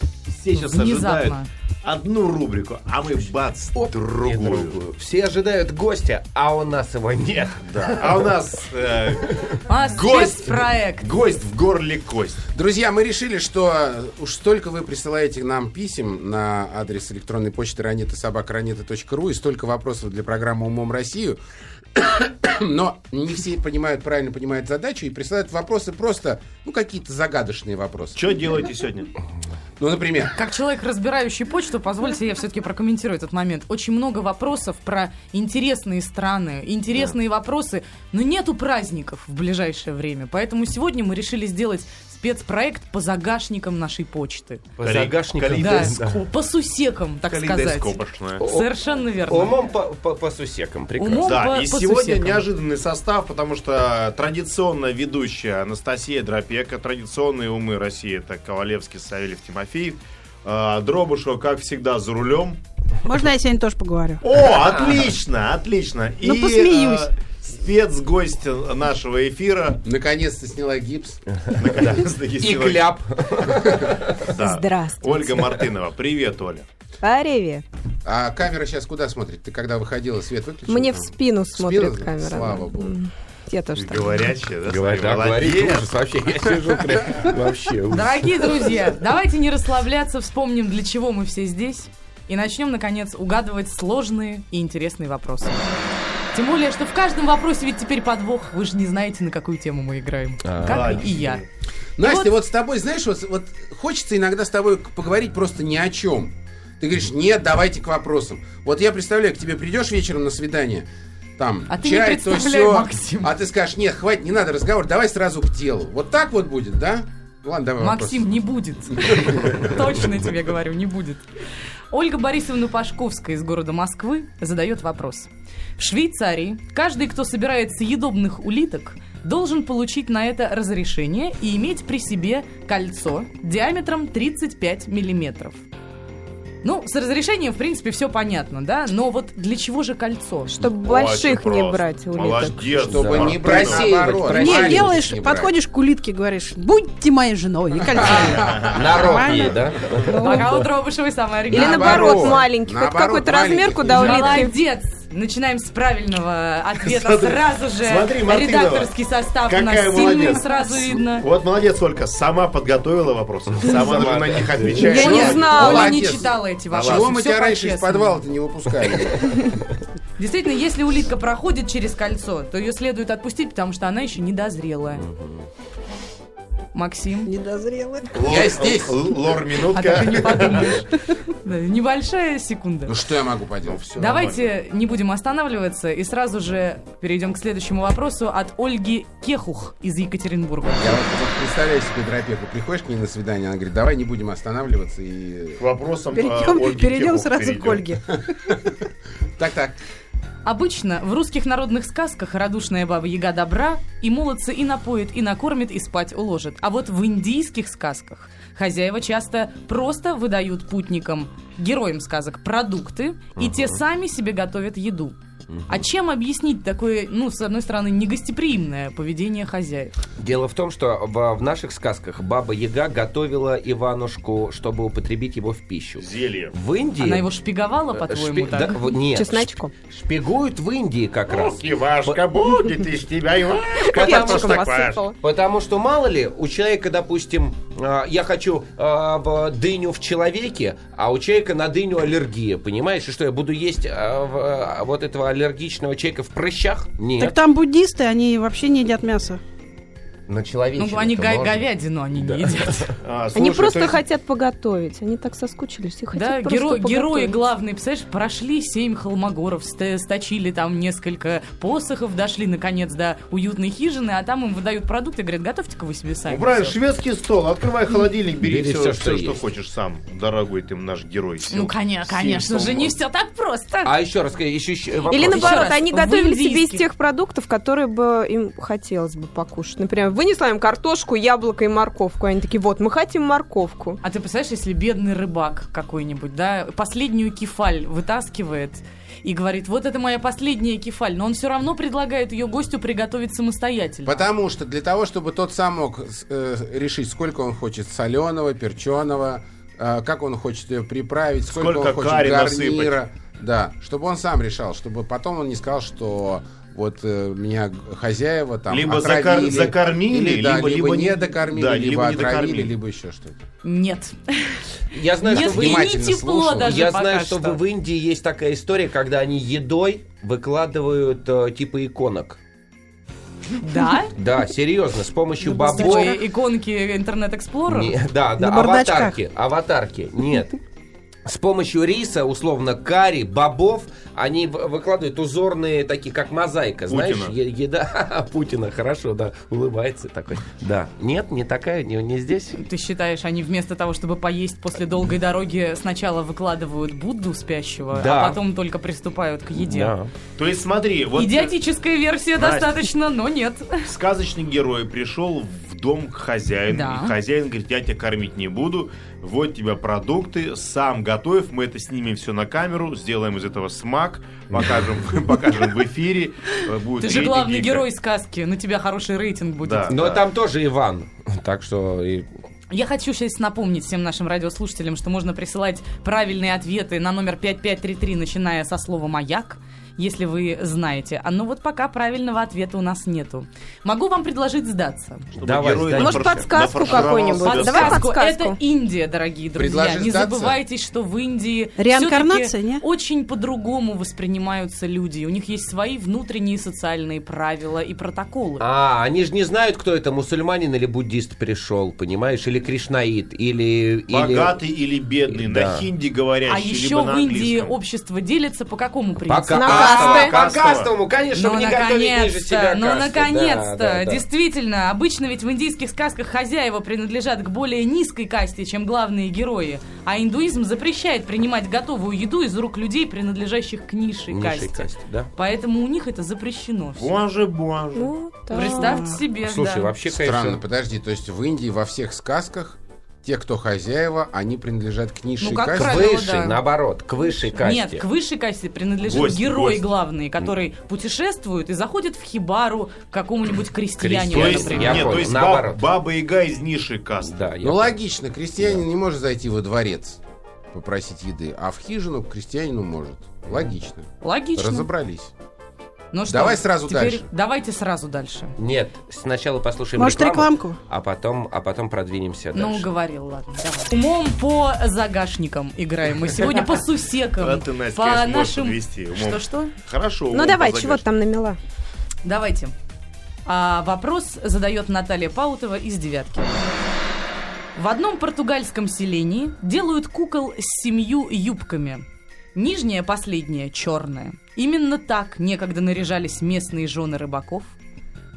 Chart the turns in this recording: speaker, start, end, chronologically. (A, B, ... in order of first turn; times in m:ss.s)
0:00.3-0:04.8 A
0:00.6-0:01.5 B
0:03.8-0:08.3 C
0:07.6-0:12.4 A
0:09.3-0:09.6 C
0:09.7-0:11.1 B
0:12.5-0:21.4 D
0:22.0-0:28.3 D
0:28.2-0:29.1 A
0:29.8-0:30.3 D
0:30.3-0:44.7 B
0:44.8-0:46.2 C
0:44.8-0:46.0 A
0:45.5-0:49.6 B
0:47.3-0:48.4 A
0:48.4-0:51.4 C
0:51.0-0:52.4 B
0:51.2-1:02.6 A
1:03.0-1:04.2 E
1:04.2-1:09.8 A
1:04.6-1:05.0 C
1:06.2-1:07.1 E
1:09.8-1:11.2 D
1:11.6-1:16.7 A
1:12.4-1:14.3 C
1:14.3-1:15.6 F
1:17.0-1:17.6 F
1:18.0-1:23.0 D
1:20.7-1:24.3 F
1:23.7-1:25.9 A
1:24.7-1:28.9 C
1:27.9-1:35.7 B
1:36.3-1:41.4 B
1:40.4-1:41.0 C
1:40.6-1:41.5 A
1:42.0-1:50.9 D
1:42.0-1:42.3 B
1:51.4-1:58.3 D
1:51.7-1:53.3 B
1:57.8-2:01.3 B
1:58.9-1:59.6 D
2:01.9-2:15.6 B
2:16.6-2:20.6 B
2:20.5-2:22.9 F
2:20.8-2:24.1 A
2:22.8-2:25.5 D
2:22.9-2:25.1 C
2:24.3-2:30.5 E
2:28.0-2:28.6 D
2:28.3-2:29.6 A
2:28.5-2:30.4 C
2:30.2-2:32.4 B
2:31.5-2:34.5 D
2:31.5-2:34.5 F
2:33.9-2:41.3 B
2:36.8-2:38.9 A
2:39.5-2:45.8 A
2:43.5-2:44.9 C
2:44.7-2:46.2 F
2:44.8-2:48.2 B
2:44.9-2:49.5 D
2:46.7-2:47.1 A
2:50.2-2:55.1 B
2:55.0-2:55.5 C
2:56.7-2:57.3 B
2:57.2-2:58.2 E
2:58.1-3:00.8 A
2:58.2-2:59.0 D
2:59.7-3:03.0 B
3:02.9-3:03.8 D
3:03.6-3:04.5 A
3:04.0-3:11.1 B
3:10.8-3:15.6 D
3:15.6-3:17.9 A
3:16.1-3:18.0 E
3:18.3-3:19.8 D
3:20.4-3:35.2 B
3:33.4-3:33.8 C
3:35.5-3:35.9 C
3:35.7-3:40.0 B
3:40.2-3:47.3 C
3:46.0-3:46.6 A
3:47.0-3:48.8 B
3:47.9-3:52.2 C
3:49.1-3:49.8 F
3:51.3-3:55.0 A
3:53.8-3:55.2 F
3:54.2-3:54.6 C
3:55.2-4:07.4 C
4:07.2-4:09.4 E
4:10.3-4:13.0 C
4:10.8-4:12.9 B
4:13.0-4:14.0 A
4:13.3-4:17.4 F
4:16.1-4:26.8 B
4:26.3-4:33.0 A
4:28.4-4:29.4 C
4:31.5-4:33.9 B
4:33.8-4:35.8 C
4:35.1-4:44.0 F
4:35.1-4:36.8 B
4:44.0-4:54.2 B
4:54.0-5:13.4 D
5:01.5-5:03.0 A
5:08.7-5:12.7 A
5:13.6-5:14.6 B
5:14.9-5:16.0 C
5:15.2-5:17.6 B
5:15.2-5:16.7 D
5:16.5-5:22.4 C
5:23.6-5:24.1 B
5:24.1-5:26.2 C
5:25.4-5:28.0 B
5:25.4-5:26.2 E
5:27.7-5:30.6 C
5:28.4-5:29.2 E
5:31.3-5:42.6 C
5:36.9-5:37.4 A
5:42.5-5:50.0 B
5:47.9-5:48.4 C
5:49.6-5:50.1 C
5:50.4-5:51.5 A
5:51.2-5:53.9 B
5:52.4-5:52.9 A
5:53.8-6:07.9 A
5:56.7-5:57.1 B
6:04.6-6:04.8 C
6:07.0-6:10.0 B
6:09.6-6:10.2 A
6:09.9-6:12.3 C
6:12.7-6:25.3 B
6:25.4-6:28.0 A
6:25.4-6:27.1 C
6:26.0-6:28.6 F
6:27.4-6:38.6 B
6:29.6-6:30.6 D
6:31.8-6:32.8 E
6:38.6-6:44.6 C
6:44.1-6:47.7 A
6:45.3-6:45.9 C
6:46.5-6:50.3 B
6:49.2-6:54.2 C
6:49.6-6:50.4 F
6:49.7-6:50.9 A
6:51.3-7:07.1 B
7:04.3-7:05.3 C
7:07.0-7:08.1 A
7:08.0-7:09.2 F
7:08.5-7:09.9 B
7:08.6-7:09.1 E
7:09.3-7:10.6 C
7:10.1-7:16.0 D
7:15.4-7:16.6 B
7:15.7-7:18.0 C
7:17.6-7:25.1 B
7:19.0-7:19.9 A
7:24.0-7:25.8 C
7:24.3-7:27.4 A
7:24.8-7:25.2 D
7:27.2-7:28.0 C
7:27.6-7:30.2 D
7:30.7-7:35.3 D
7:34.2-7:34.9 B
7:36.1-7:38.6 B
7:36.3-7:37.3 D
7:38.6-7:42.9 C
7:40.0-7:40.8 E
7:42.6-7:49.7 B
7:47.4-7:51.0 A
7:50.3-7:51.6 F
7:52.2-7:52.7 B
7:53.5-7:56.6 B
7:57.8-8:07.7 B